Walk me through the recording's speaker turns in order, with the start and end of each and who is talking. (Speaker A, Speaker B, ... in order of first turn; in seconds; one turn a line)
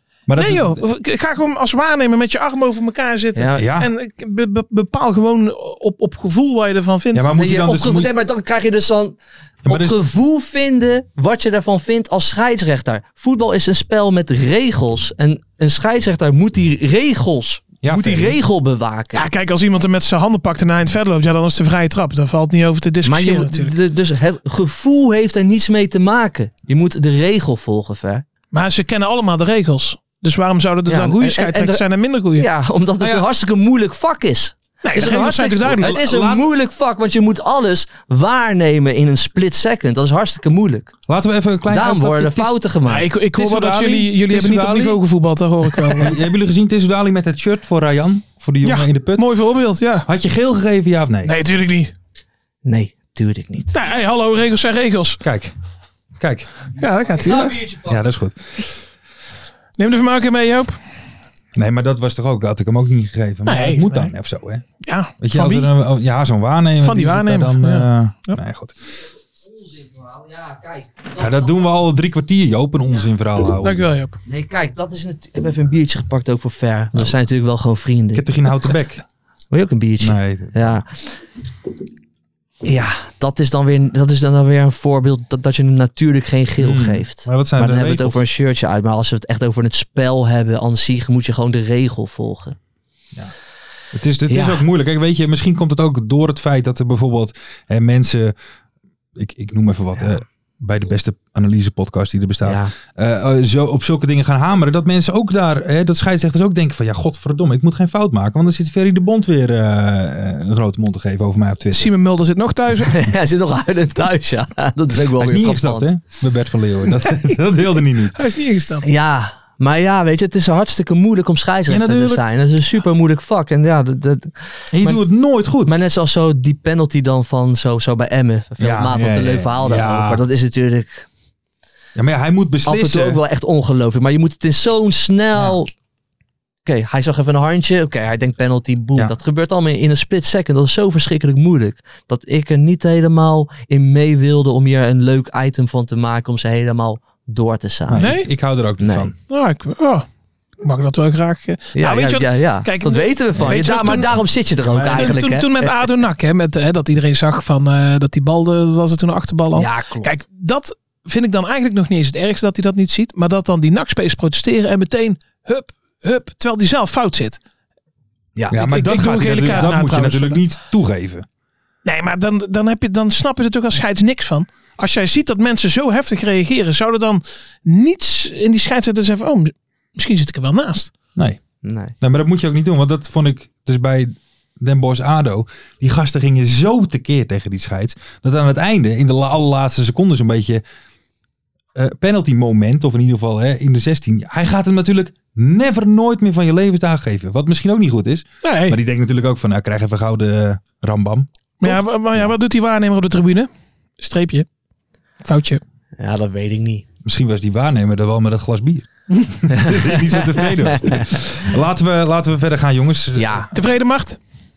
Speaker A: 0.3-0.8
Speaker B: 0.3-7.3
Speaker C: 3.4-3.7
Speaker A: 3.6-3.9
Speaker A: 7.1-8.1
Speaker C: 7.3-19.2
Speaker A: 9.6-10.0
Speaker A: 17.8-18.4
Speaker B: 19.1-23.7
Speaker C: 23.0-28.2
Speaker B: 28.5-32.5
Speaker C: 30.9-31.8
Speaker C: 32.3-40.9
Speaker A: 33.0-33.2
Speaker B: 34.8-35.9
Speaker A: 35.3-36.5
Speaker A: 41.1-42.5
Speaker C: 41.7-43.1
Speaker B: 42.9-46.1
Speaker A: 43.3-45.0
Speaker A: 45.9-49.3
Speaker B: 48.6-50.1
Speaker A: 50.0-51.3
Speaker B: 51.2-51.9
Speaker C: 52.6-53.7
Speaker B: 53.7-55.2
Speaker A: 55.2-55.5
Speaker A: 56.2-56.5
Speaker B: 56.8-57.6
Speaker C: 57.2-57.9
Speaker A: 57.8-58.6
Speaker B: 59.8-60.8
Speaker A: 61.5-64.6
Speaker B: 63.4-64.1
Speaker B: 64.8-65.7
Speaker A: 65.2-68.8
Speaker B: 66.8-68.4
Speaker C: 69.4-71.7
Speaker A: 71.2-73.9
Speaker B: 73.6-74.2
Speaker C: 74.2-78.2
Speaker A: 78.1-79.0
Speaker C: 79.5-81.0
Speaker A: 80.0-80.8
Speaker C: 82.6-92.6
Speaker A: 86.6-88.2
Speaker A: 93.9-98.3
Speaker C: 94.3-94.6
Speaker A: 99.2-111.9
Speaker C: 102.4-102.7
Speaker B: 111.7-113.0
Speaker C: 112.8-115.9
Speaker A: 115.1-118.2
Speaker B: 118.1-118.8
Speaker C: 118.8-125.0
Speaker A: 121.7-122.2
Speaker A: 124.7-125.7
Speaker C: 125.7-131.1
Speaker A: 128.6-130.2
Speaker A: 131.9-133.2
Speaker C: 132.6-135.7
Speaker C: 136.7-148.1
Speaker A: 147.9-149.1
Speaker B: 148.0-148.3
Speaker C: 148.8-149.1
Speaker B: 149.3-150.1
Speaker B: 150.6-154.1
Speaker C: 151.7-155.8
Speaker A: 154.6-155.2
Speaker B: 154.9-167.4
Speaker C: 159.5-160.1
Speaker C: 168.3-168.6
Speaker A: 168.5-171.2
Speaker B: 168.6-170.4
Speaker B: 171.8-180.9
Speaker A: 181.2-181.4
Speaker C: 181.6-181.9
Speaker A: 182.0-190.6
Speaker A: 191.7-201.3
Speaker B: 198.4-198.8
Speaker B: 201.6-204.4
Speaker C: 201.7-202.2
Speaker B: 205.2-205.6
Speaker C: 206.0-206.8
Speaker A: 207.0-213.4
Speaker C: 209.5-211.2
Speaker C: 213.2-213.5
Speaker B: 213.5-214.2